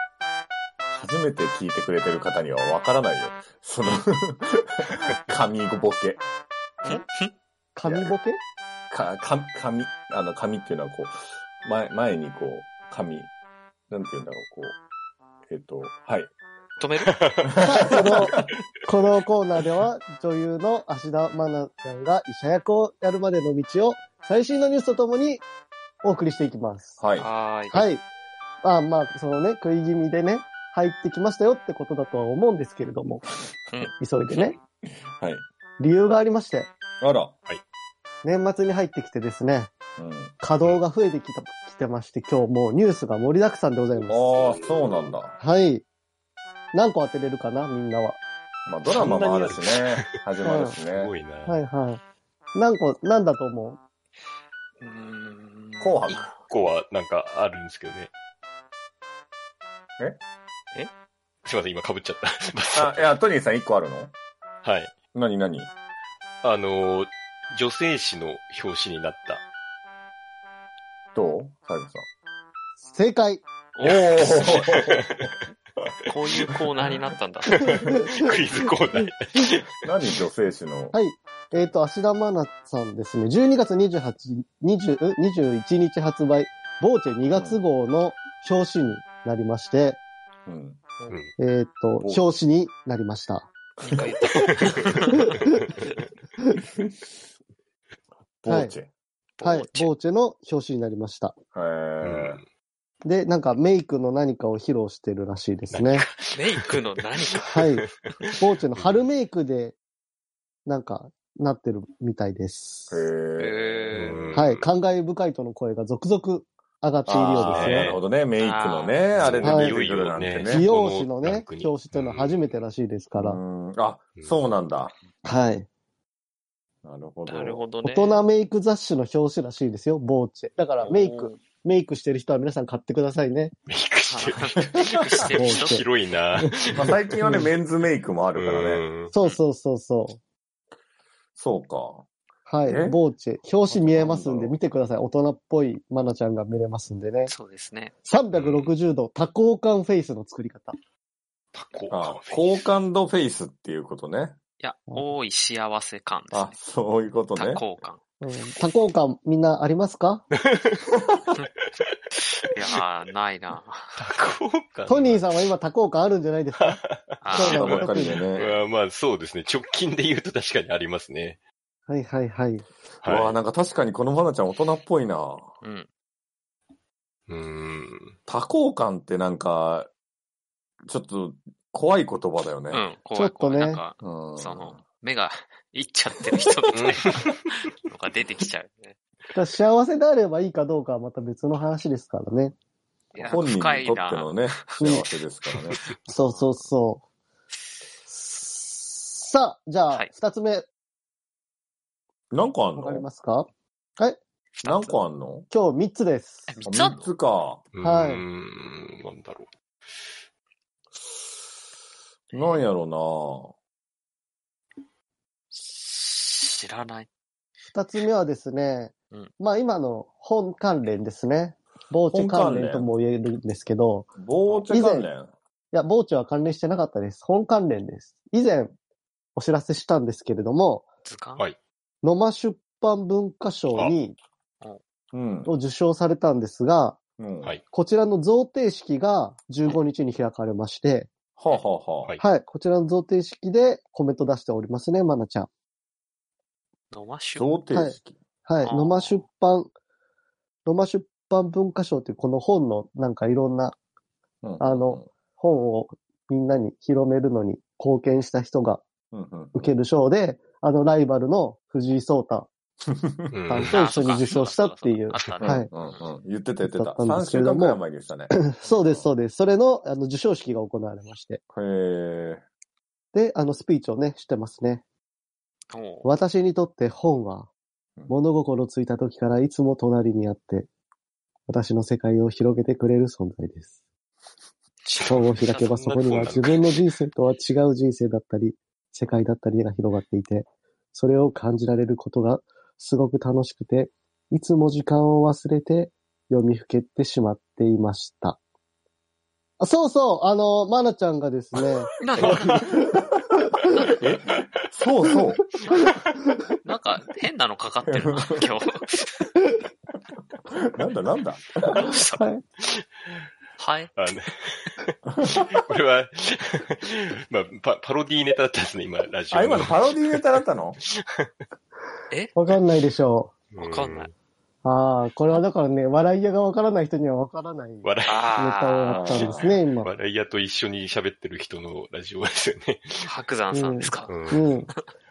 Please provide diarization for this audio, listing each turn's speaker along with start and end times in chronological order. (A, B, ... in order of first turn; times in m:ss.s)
0:00.9-0:06.2 A
0:06.8-0:07.3 B
0:07.7-0:08.4 C
0:07.8-0:08.1 A
0:08.9-0:13.3 A
0:13.9-0:14.7 A
0:15.5-0:16.3 A
0:16.8-0:17.1 B
0:17.1-0:17.5 D
0:17.4-0:18.5 A
0:17.6-0:25.4 C
0:26.0-0:27.0 C
0:27.0-0:27.3 A
0:27.2-0:27.9 B
0:27.7-0:28.0 C
0:28.6-0:33.3 C
0:34.0-0:34.6 C
0:35.2-0:35.4 A
0:35.8-0:36.7 C
0:37.0-0:37.3 A
0:38.2-0:39.7 C
0:40.0-0:40.3 A
0:40.4-0:44.6 C
0:44.0-0:45.4 A
0:44.5-0:44.9 D
0:45.3-0:45.8 C
0:46.7-0:48.2 C
0:48.7-0:51.1 A
0:48.8-0:50.2 D
0:50.4-0:50.8 C
0:50.9-0:51.6 D
0:51.4-0:52.0 C
0:52.5-0:53.8 C
0:54.8-0:56.5 B
0:55.8-0:56.3 A
0:56.1-0:58.1 D
1:01.4-1:03.1 D
1:02.7-1:04.1 A
1:04.6-1:04.9 D
1:05.1-1:05.7 A
1:06.4-1:09.4 D
1:11.2-1:12.0 A
1:12.9-1:13.4 C
1:13.8-1:14.8 B
1:13.8-1:15.1 A
1:14.2-1:15.4 D
1:16.1-1:17.6 B
1:17.5-1:19.8 D
1:17.7-1:19.5 C
1:19.8-1:21.0 A
1:20.9-1:30.0 C
1:27.3-1:27.6 A
1:30.4-1:30.8 A
1:31.4-1:33.5 C
1:33.8-1:35.3 B
1:38.4-1:38.9 A
1:38.5-1:38.8 C
1:39.4-1:39.9 B
1:39.4-1:41.3 C
1:41.5-1:42.4 A
1:42.0-1:42.4 D
1:43.0-1:46.0 C
1:45.7-1:46.8 D
1:46.3-1:47.6 B
1:47.4-1:47.8 C
1:47.5-1:48.1 D
1:48.4-1:49.8 C
1:48.7-1:49.1 D
1:50.7-1:53.1 C
1:52.9-1:54.4 A
1:53.4-1:54.2 B
1:53.9-1:54.7 D
1:54.3-1:58.0 C
1:57.0-2:00.7 A
1:57.4-1:58.0 D
1:58.4-1:59.0 B
1:59.1-2:02.5 D
1:59.4-1:59.8 C
2:00.4-2:03.4 C
2:03.2-2:05.0 A
2:04.1-2:04.4 D
2:05.2-2:05.7 C
2:06.8-2:07.6 A
2:07.3-2:08.2 B
2:07.8-2:13.5 C
2:10.8-2:11.4 B
2:13.7-2:17.0 D
2:14.1-2:15.8 B
2:15.4-2:15.8 C
2:16.7-2:18.8 A
2:17.2-2:17.5 C
2:18.3-2:19.1 D
2:19.1-2:20.2 C
2:21.4-2:22.0 A
2:22.5-2:27.3 C
2:22.6-2:23.0 A
2:23.7-2:24.6 A
2:27.3-2:27.9 B
2:28.0-2:30.8 C
2:28.3-2:28.7 D
2:31.5-2:32.6 D
2:31.9-2:34.4 A
2:34.6-2:36.5 B
2:36.3-2:37.6 A
2:37.3-2:38.0 B
2:38.2-2:40.3 C
2:40.4-2:40.9 D
2:41.6-2:42.5 D
2:42.5-2:44.0 B
2:44.0-2:45.3 D
2:44.9-2:46.8 C
2:46.6-2:51.4 D
2:47.2-2:47.8 B
2:47.3-2:48.2 C
2:47.4-2:48.5 A
2:51.9-2:52.7 C
2:53.0-2:53.3 D
2:53.0-2:55.5 A
2:55.6-2:55.9 B
2:57.3-2:58.2 D
2:58.3-2:59.9 A
3:00.8-3:02.8 A
3:02.7-3:09.0 B
3:03.1-3:03.8 C
3:04.0-3:04.8 A
3:06.7-3:07.4 D
3:09.3-3:12.5 C
3:13.1-3:14.9 B
3:13.3-3:15.8 A
3:14.8-3:15.1 C
3:15.5-3:15.9 D
3:15.8-3:16.7 B
3:16.1-3:17.0 C
3:18.1-3:20.6 C
3:22.3-3:23.0 A
3:22.8-3:24.2 C
3:24.6-3:25.0 B
3:24.6-3:25.5 A
3:25.5-3:26.6 C
3:26.5-3:27.1 B
3:26.6-3:27.6 A
3:27.8-3:29.4 D
3:27.8-3:28.2 C
3:32.3-3:33.5 A
3:32.3-3:32.6 B
3:35.5-3:37.1 B
3:37.7-3:44.1 C
3:42.1-3:42.9 A
3:44.2-3:45.3 A
3:44.7-3:45.1 C
3:45.7-3:48.7 C
3:49.4-3:50.8 C
3:51.0-3:51.4 B
3:52.0-3:54.2 C
3:55.1-3:55.5 A
3:55.4-3:57.0 C
3:57.2-3:57.5 A
3:57.7-4:01.1 C
4:01.4-4:02.1 A
4:02.2-4:05.5 C
4:06.9-4:07.6 B
4:07.3-4:08.2 A
4:07.7-4:09.7 C
4:08.6-4:09.2 B
4:10.6-4:13.8 C
4:14.4-4:15.1 A
4:14.6-4:18.8 C
4:19.1-4:19.7 A
4:19.5-4:22.5 C
4:23.3-4:23.9 D
4:23.5-4:25.7 C
4:23.6-4:26.1 B
4:25.4-4:29.1 A
4:26.6-4:31.4 C
4:28.6-4:28.9 B
4:31.5-4:32.4 A
4:33.1-4:34.8 C
4:35.7-4:36.1 B
4:36.0-4:37.5 C
4:38.1-4:40.7 C
4:41.5-4:43.7 C
4:44.8-4:45.6 B
4:45.0-4:58.4 C
4:45.1-4:46.8 D
4:59.6-5:02.4 C
5:02.0-5:02.7 B
5:02.2-5:03.3 A
5:03.9-5:05.4 A
5:06.6-5:09.2 B
5:07.9-5:08.5 A
5:10.7-5:12.0 A
5:11.7-5:12.3 B
5:12.1-5:12.4 C
5:12.6-5:13.2 D
5:13.6-5:13.9 B
5:14.0-5:21.3 D
5:19.3-5:20.8 A
5:22.1-5:22.4 B
5:22.3-5:23.3 C
5:23.5-5:24.1 D
5:23.6-5:24.1 B
5:24.6-5:29.9 C
5:27.8-5:28.3 D
5:28.1-5:29.4 B
5:28.9-5:29.6 A
5:29.2-5:33.1 D
5:33.0-5:34.8 B
5:33.5-5:34.7 C
5:34.1-5:34.6 D